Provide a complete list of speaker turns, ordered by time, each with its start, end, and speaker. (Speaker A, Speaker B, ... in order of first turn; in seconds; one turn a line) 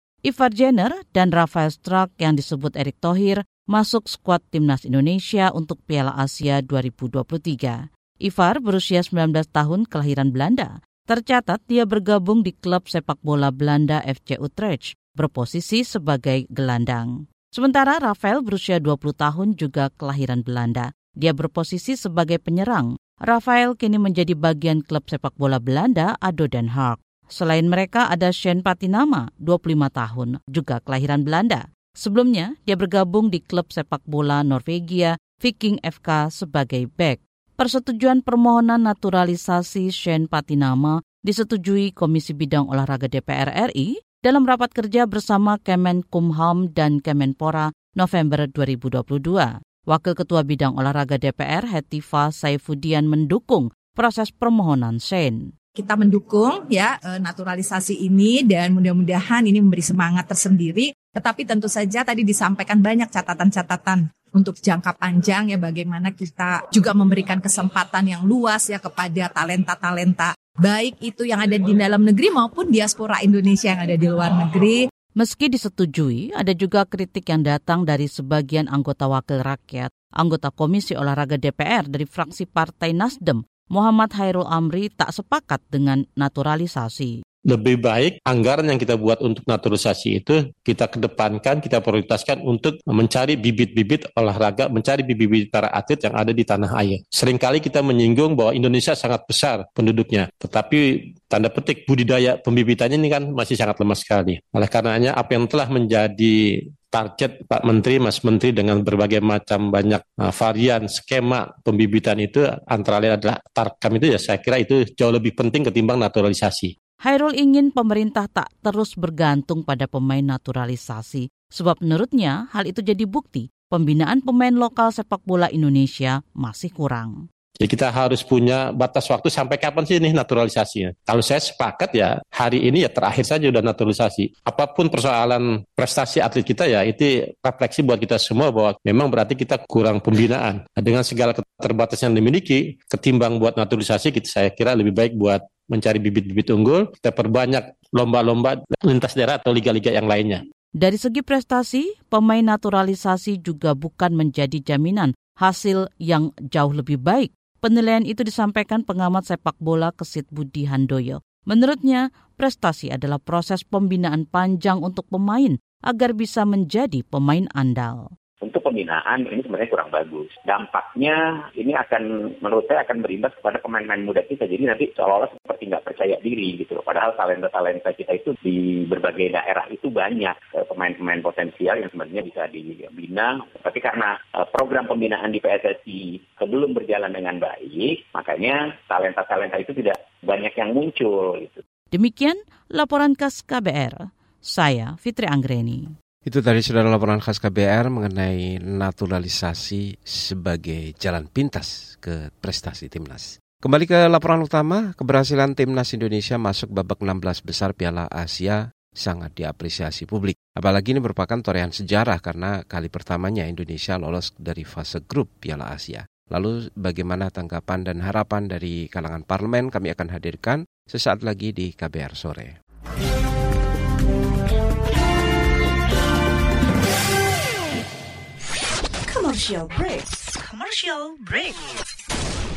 Speaker A: 0.2-55.5
Speaker B: 55.8-74.8
Speaker A: 75.2-87.1
Speaker C: 87.5-116.7
Speaker A: 117.0-127.2
Speaker C: 127.6-150.4
Speaker A: 150.8-168.1
Speaker D: 168.4-191.6
Speaker A: 191.9-195.9
Speaker E: 196.2-222.5
Speaker F: 229.1-231.6